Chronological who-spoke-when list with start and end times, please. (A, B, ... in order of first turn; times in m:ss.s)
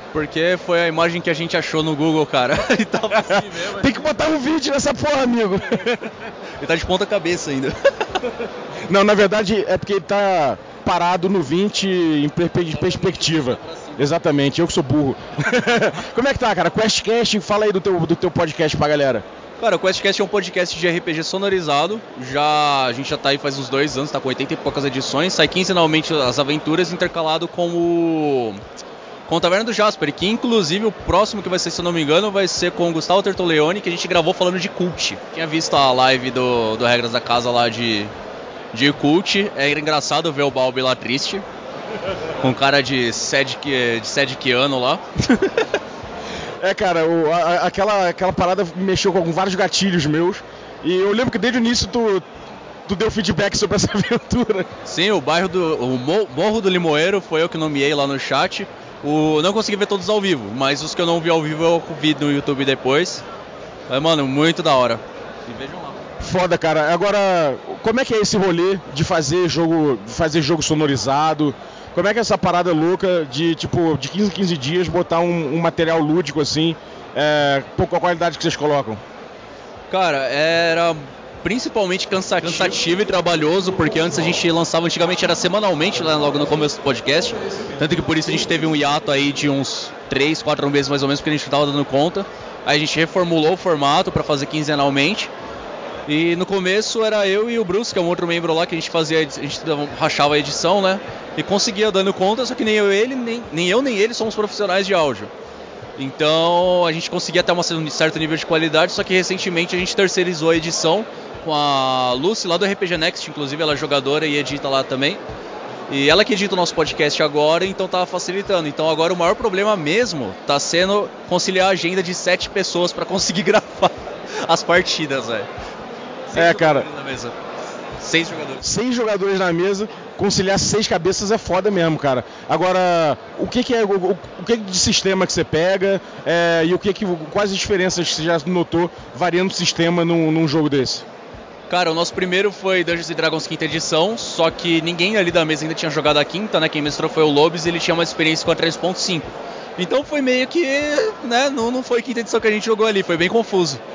0:00.1-0:04.1 A
0:03.3-0:06.0 B
0:06.6-0:07.7 A
0:08.9-0:19.2 B
0:12.7-0:14.0 A
0:19.6-0:28.6 A
0:29.3-0:38.1 A
0:38.7-0:41.4 A
0:42.4-0:45.0 A
0:46.6-0:52.3 B
0:52.9-0:54.7 B
0:54.9-1:03.2 A
1:03.9-1:06.0 A
1:06.2-1:19.0 B
1:19.9-1:35.3 A
1:36.1-1:45.3 A
1:46.0-1:55.2 A
1:55.9-2:05.5 A
2:06.3-2:07.3 A
2:06.3-2:06.9 B
2:08.0-2:08.6 A
2:08.6-2:21.1 B
2:21.7-2:33.8 A